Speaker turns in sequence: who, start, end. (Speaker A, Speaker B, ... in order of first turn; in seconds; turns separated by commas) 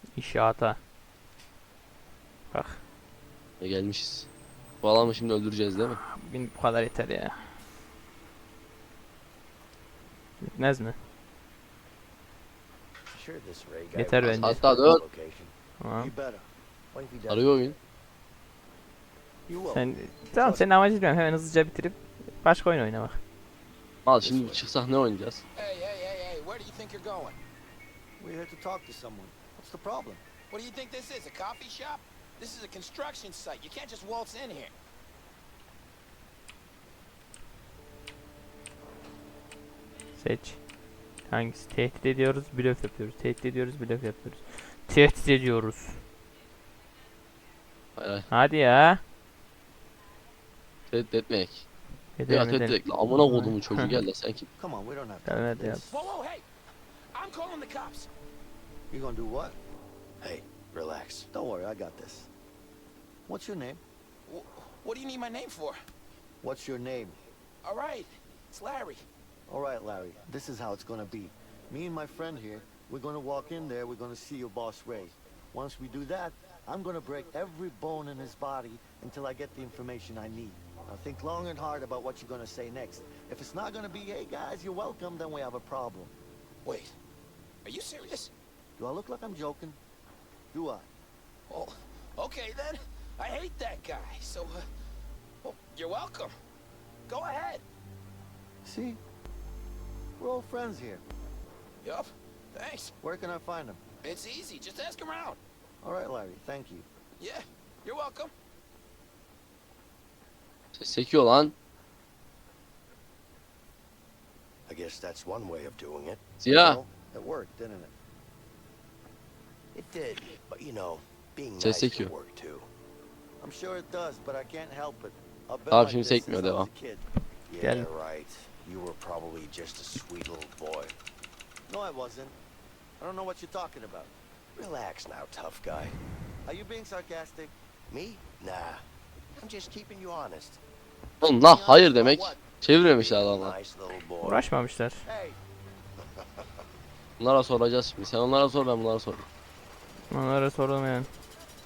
Speaker A: 0.1-0.8, Speaker A: 2.5-2.8, Speaker B: 3.6-4.3, Speaker B: 4.8-6.0, Speaker A: 6.1-7.4, Speaker A: 10.4-11.0, Speaker C: 13.1-15.5, Speaker A: 13.9-14.6, Speaker B: 14.4-15.0, Speaker A: 15.8-16.1, Speaker D: 16.0-16.5, Speaker C: 16.9-17.8, Speaker B: 17.3-17.8, Speaker D: 19.5-20.7, Speaker A: 19.7-23.2, Speaker B: 24.1-25.4, Speaker C: 24.2-24.7, Speaker E: 25.6-27.4, Speaker D: 28.2-30.2, Speaker E: 30.5-34.7, Speaker A: 40.2-40.6, Speaker A: 41.3-46.0, Speaker B: 48.0-48.3, Speaker A: 48.3-49.0, Speaker B: 50.9-51.6, Speaker A: 52.2-53.9, Speaker B: 52.3-54.5, Speaker D: 54.6-56.1, Speaker A: 55.3-55.8, Speaker E: 55.9-56.5, Speaker E: 57.1-58.1, Speaker D: 58.9-59.6, Speaker C: 60.2-61.3, Speaker D: 61.3-62.3, Speaker D: 63.3-63.8, Speaker E: 64.3-65.8, Speaker D: 66.4-67.2, Speaker E: 67.6-69.0, Speaker D: 69.5-86.1, Speaker E: 86.7-87.0, Speaker E: 87.7-88.3, Speaker D: 88.8-89.8, Speaker D: 90.5-90.9, Speaker E: 91.5-94.6, Speaker E: 95.4-96.3, Speaker E: 97.1-97.6, Speaker D: 98.6-99.0, Speaker D: 100.2-101.0, Speaker E: 101.8-102.9, Speaker D: 103.0-103.8, Speaker E: 104.0-105.4, Speaker D: 105.8-106.9, Speaker E: 107.2-108.3, Speaker B: 110.8-111.5, Speaker C: 114.7-116.2, Speaker B: 116.4-116.8, Speaker D: 116.5-117.9, Speaker C: 119.7-122.7, Speaker B: 121.6-122.1, Speaker D: 123.4-127.1, Speaker B: 125.7-126.7, Speaker C: 127.5-131.0, Speaker A: 127.6-127.9, Speaker D: 131.7-132.4, Speaker D: 133.0-134.1, Speaker C: 134.6-136.0, Speaker D: 136.5-137.5, Speaker C: 137.9-138.8, Speaker C: 139.4-140.6, Speaker B: 141.2-143.6, Speaker D: 141.4-142.4, Speaker C: 142.7-144.5, Speaker A: 144.2-145.1, Speaker D: 145.0-145.4, Speaker B: 147.2-149.3, Speaker A: 150.1-151.1